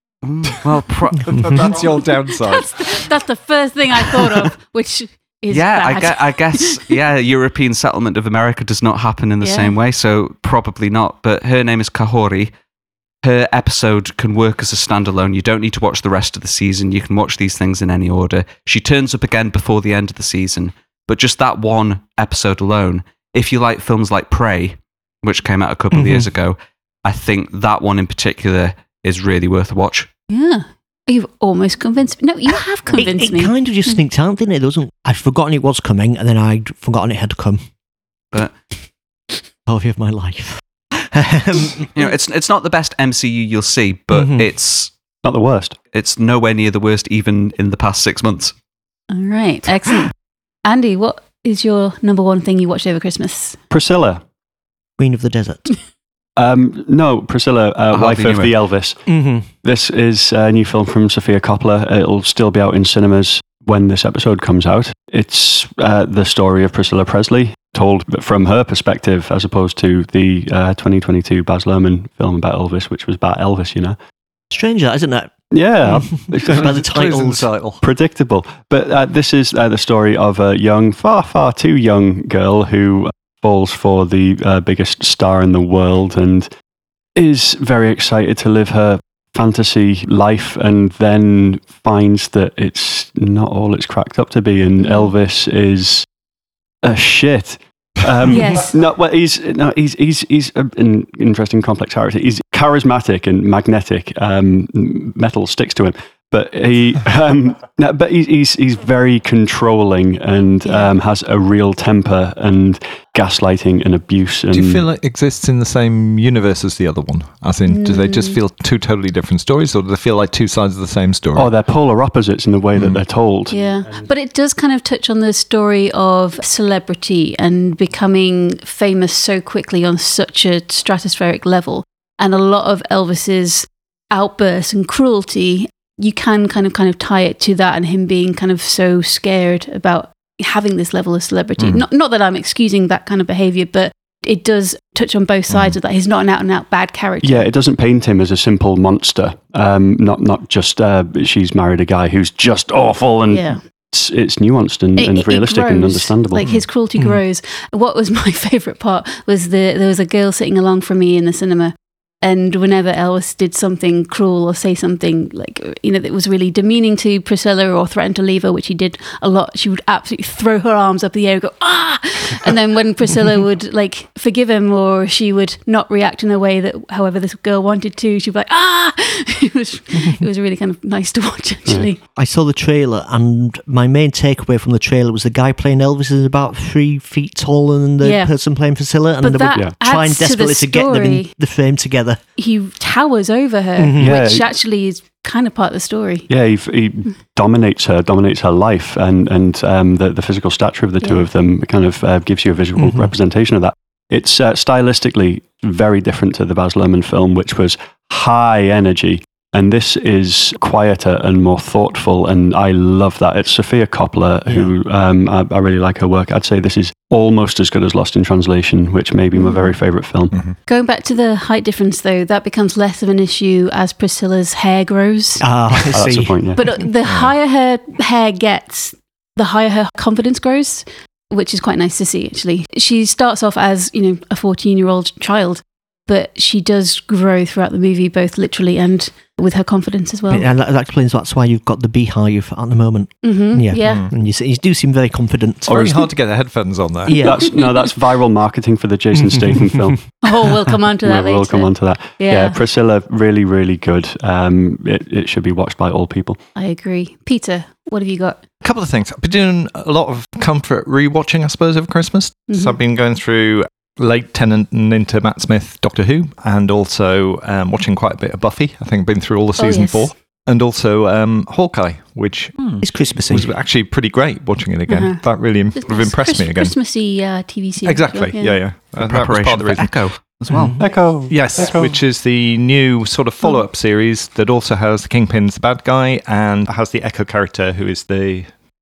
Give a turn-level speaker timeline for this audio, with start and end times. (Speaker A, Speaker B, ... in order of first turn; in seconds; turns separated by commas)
Speaker A: 0.2-1.8, Speaker B: 1.2-2.8, Speaker C: 2.3-7.0, Speaker A: 5.5-12.5, Speaker C: 9.4-9.7, Speaker A: 13.2-30.1, Speaker D: 25.9-26.3, Speaker C: 30.3-34.0, Speaker D: 32.9-37.6, Speaker D: 39.7-41.9, Speaker A: 42.0-44.9, Speaker D: 44.1-44.5, Speaker E: 45.2-45.8, Speaker A: 45.9-48.5, Speaker C: 49.1-50.1, Speaker C: 50.6-53.6, Speaker E: 53.7-54.2, Speaker D: 55.0-55.7, Speaker E: 56.4-59.0, Speaker A: 57.9-58.6, Speaker D: 59.1-59.5, Speaker E: 59.6-74.0, Speaker D: 74.5-75.3, Speaker E: 75.5-76.7, Speaker D: 75.8-77.5, Speaker B: 76.5-77.8, Speaker E: 77.8-86.5, Speaker E: 87.2-96.1, Speaker C: 94.8-95.1, Speaker E: 96.8-114.9, Speaker C: 98.3-98.8, Speaker C: 110.7-110.9, Speaker B: 114.5-121.5, Speaker C: 117.7-118.4, Speaker E: 121.3-124.1, Speaker B: 122.8-123.0, Speaker C: 123.5-147.5, Speaker B: 141.6-141.8, Speaker B: 145.5-145.8, Speaker E: 147.2-156.5, Speaker C: 153.3-153.6, Speaker C: 155.0-182.0, Speaker D: 182.2-192.2, Speaker C: 188.0-188.3, Speaker C: 189.2-191.3, Speaker C: 192.4-196.3, Speaker D: 193.8-194.2, Speaker E: 194.0-194.5, Speaker E: 196.3-220.4, Speaker C: 201.0-201.3, Speaker D: 202.8-203.1, Speaker D: 214.5-214.7, Speaker C: 219.3-219.7, Speaker C: 220.7-225.5, Speaker D: 225.4-226.4, Speaker E: 225.9-226.6, Speaker C: 226.6-240.5, Speaker B: 227.1-227.3, Speaker D: 240.3-246.1, Speaker C: 243.2-244.1, Speaker B: 243.8-244.1, Speaker E: 245.7-246.1, Speaker B: 245.7-247.3, Speaker D: 247.1-247.5, Speaker E: 247.2-250.1, Speaker D: 249.2-250.0, Speaker C: 250.2-252.6, Speaker E: 251.0-256.4, Speaker C: 256.6-258.4, Speaker B: 258.6-272.6, Speaker C: 262.5-262.8, Speaker C: 269.6-270.1, Speaker A: 272.6-272.9, Speaker D: 272.8-273.5, Speaker B: 273.3-276.7, Speaker C: 274.9-275.2, Speaker C: 275.8-278.6, Speaker B: 277.8-280.0, Speaker A: 279.0-280.7, Speaker D: 280.5-280.8, Speaker E: 280.8-282.0, Speaker B: 281.3-288.5